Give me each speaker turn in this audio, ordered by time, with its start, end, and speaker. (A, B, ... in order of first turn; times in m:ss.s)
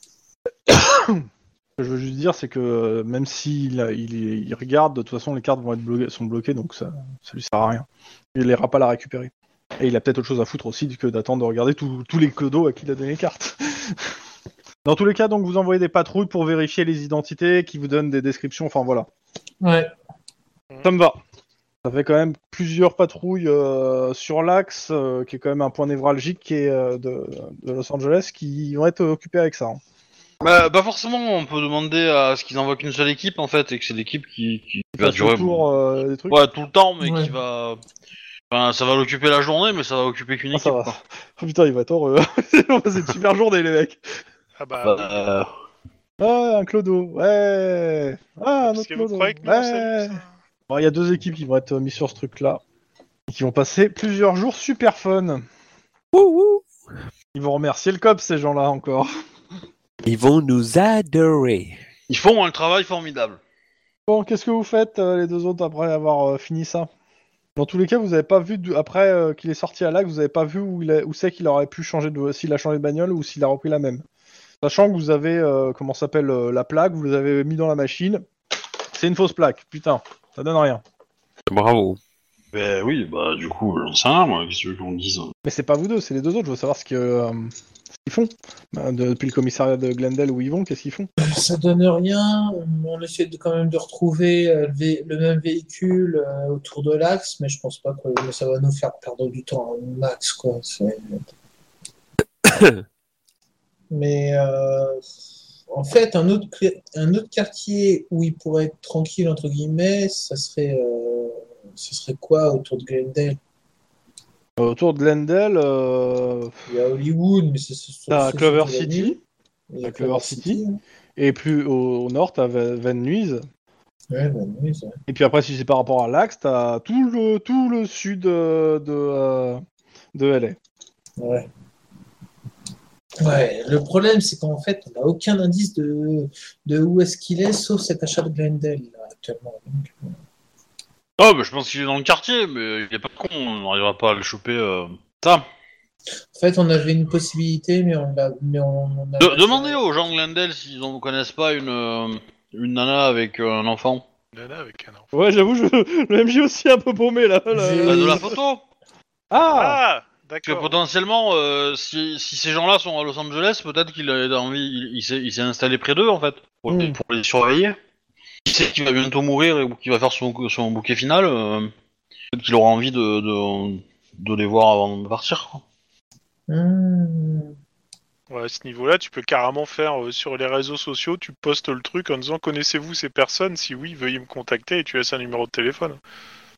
0:00.7-0:01.3 A
0:01.8-0:14.1 A
0:14.8-0:19.1 A
0:19.6-0:19.9 B
0:20.8-0:21.2 A
0:21.8-0:29.8 A
0:30.4-0:35.6 C
0:35.0-0:36.4 A
0:36.3-0:37.8 C
0:37.0-0:37.4 B
0:38.5-0:41.0 C
0:40.5-0:44.0 A
0:44.6-0:45.3 D
0:44.8-0:45.5 C
0:46.2-0:52.6 A
0:48.6-0:50.2 D
0:53.3-0:55.4 A
0:56.1-0:56.6 E
0:57.3-0:59.1 A
1:00.0-1:01.8 E
1:02.1-1:03.4 C
1:04.1-1:06.9 A
1:07.6-1:14.0 A
1:14.6-1:18.2 A
1:18.9-1:20.8 A
1:21.5-1:22.0 E
1:22.5-1:25.3 C
1:25.4-1:27.5 A
1:28.0-1:31.1 A
1:31.2-1:41.3 B
1:42.4-1:42.8 E
1:43.9-1:45.0 B
1:45.7-1:53.4 B
1:54.6-1:56.6 A
1:56.7-1:59.2 B
1:58.1-1:59.2 A
1:59.7-2:00.8 B
1:59.8-2:00.6 A
2:01.2-2:03.5 A
2:04.1-2:05.0 B
2:05.1-2:09.6 A
2:10.1-2:10.6 A
2:11.2-2:11.5 B
2:13.2-2:20.2 B
2:21.2-2:25.5 C
2:26.3-2:29.8 B
2:29.2-2:34.0 C
2:34.3-2:35.1 D
2:35.1-2:38.4 A
2:37.5-2:38.3 B
2:37.9-2:38.6 C
2:39.3-2:39.8 A
2:39.5-2:40.8 D
2:40.5-2:47.8 C
2:48.5-2:51.7 C
2:52.3-2:55.6 C
2:56.5-2:57.6 B
2:58.3-3:06.0 D